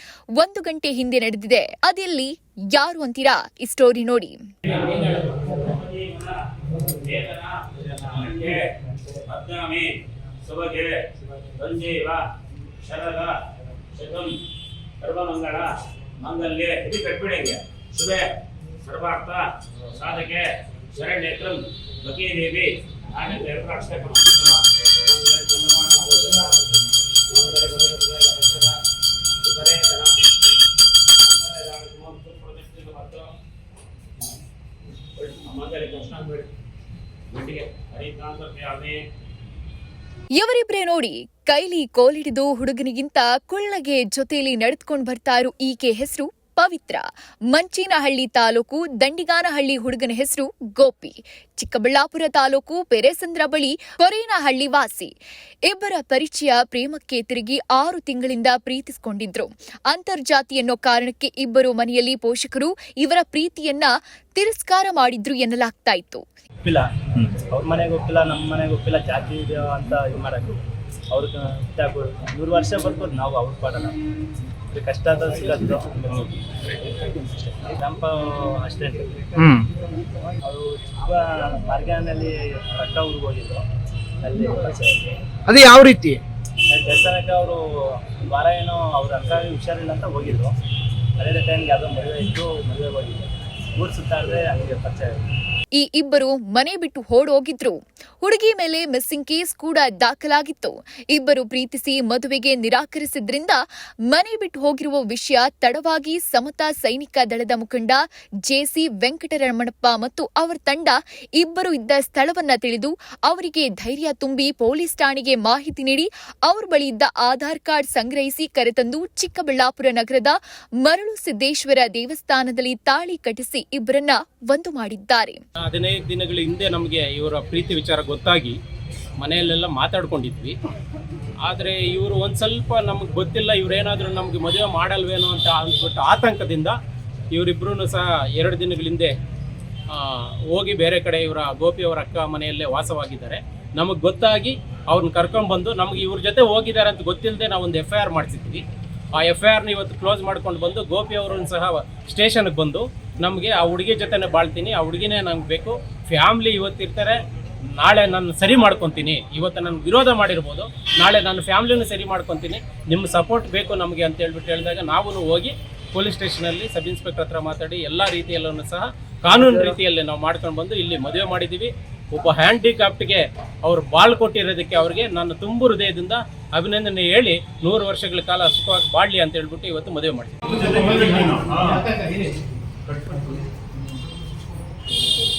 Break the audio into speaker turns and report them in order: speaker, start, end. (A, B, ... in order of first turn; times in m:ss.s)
0:00.4-0:04.4 A
0:04.7-0:11.0 B
0:11.5-0:12.2 B
0:12.8-0:13.4 B
0:14.0-0:14.4 B
0:15.0-0:28.8 B
0:29.4-0:30.2 B
0:31.2-0:33.3 B
0:35.2-0:36.5 B
0:37.3-0:39.0 B
0:40.4-0:55.1 A
0:55.7-1:06.2 A
1:06.6-1:10.6 C
1:11.1-1:14.0 C
1:14.7-1:19.4 C
1:19.4-1:19.7 D
1:20.4-1:23.6 C
1:24.2-1:25.1 C
1:25.5-1:26.2 D
1:26.7-1:30.5 C
1:31.2-1:35.2 C
1:35.7-2:05.4 A
2:05.7-2:08.6 E
2:09.2-2:10.6 E
2:11.4-2:16.8 E
2:17.3-2:19.1 E
2:19.9-2:28.6 E
2:29.2-2:37.2 E
2:37.8-3:01.4 E
3:01.0-3:02.3 D
3:03.1-3:03.4 D